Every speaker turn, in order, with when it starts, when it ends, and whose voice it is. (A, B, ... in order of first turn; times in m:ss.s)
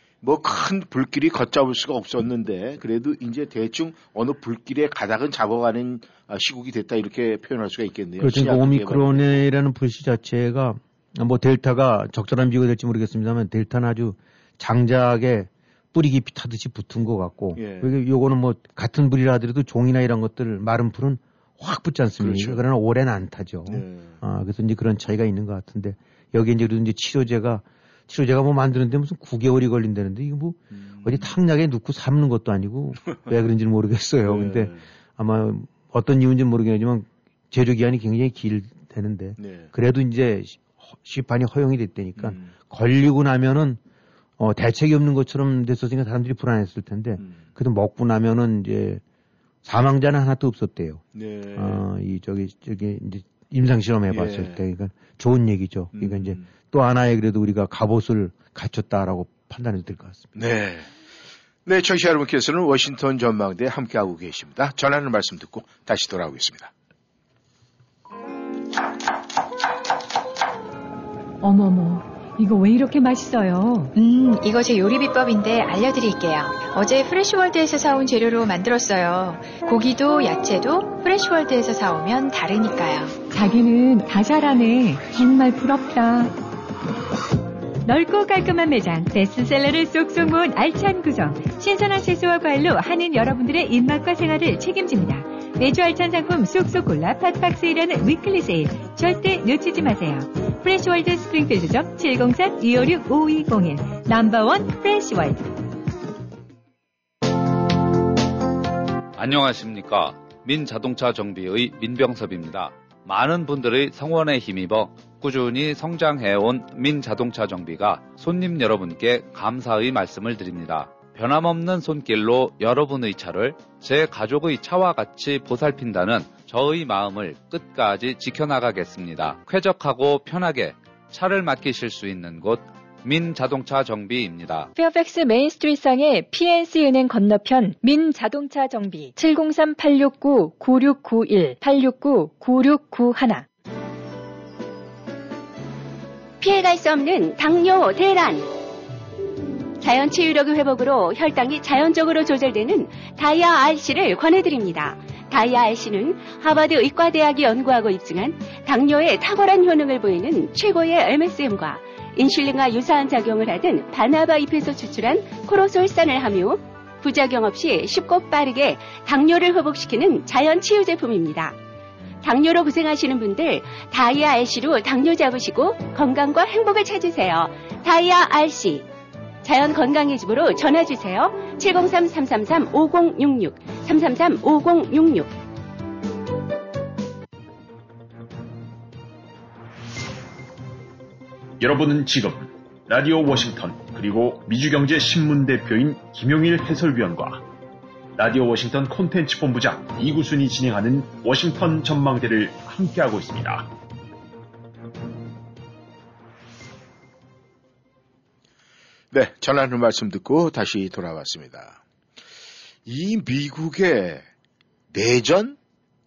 0:00.2-0:09.4 A
0:08.2-0:43.8 B
0:17.6-0:17.9 A
0:22.2-0:22.6 A
0:23.7-0:24.2 A
0:30.7-0:31.3 A
0:34.2-0:34.9 A
0:39.4-0:39.7 A
0:42.2-0:42.6 A
0:44.4-0:49.0 B
0:47.2-0:47.5 A
0:49.6-1:00.3 B
0:51.2-0:51.8 A
0:54.1-0:54.6 A
0:56.0-0:56.5 A
1:00.4-1:00.9 A
1:01.7-1:06.7 A
1:11.4-1:14.0 C
1:14.0-1:23.2 D
1:23.3-1:26.4 C
1:27.8-1:45.5 C
1:49.1-2:14.7 E
2:14.8-2:23.4 C
2:26.4-2:28.5 F
2:29.8-2:51.6 F
2:52.2-2:58.9 F
2:59.4-3:05.3 F
3:11.6-3:17.4 G
3:18.2-3:23.7 G
3:29.1-3:31.8 A
3:32.9-3:34.3 A
3:34.9-3:35.6 A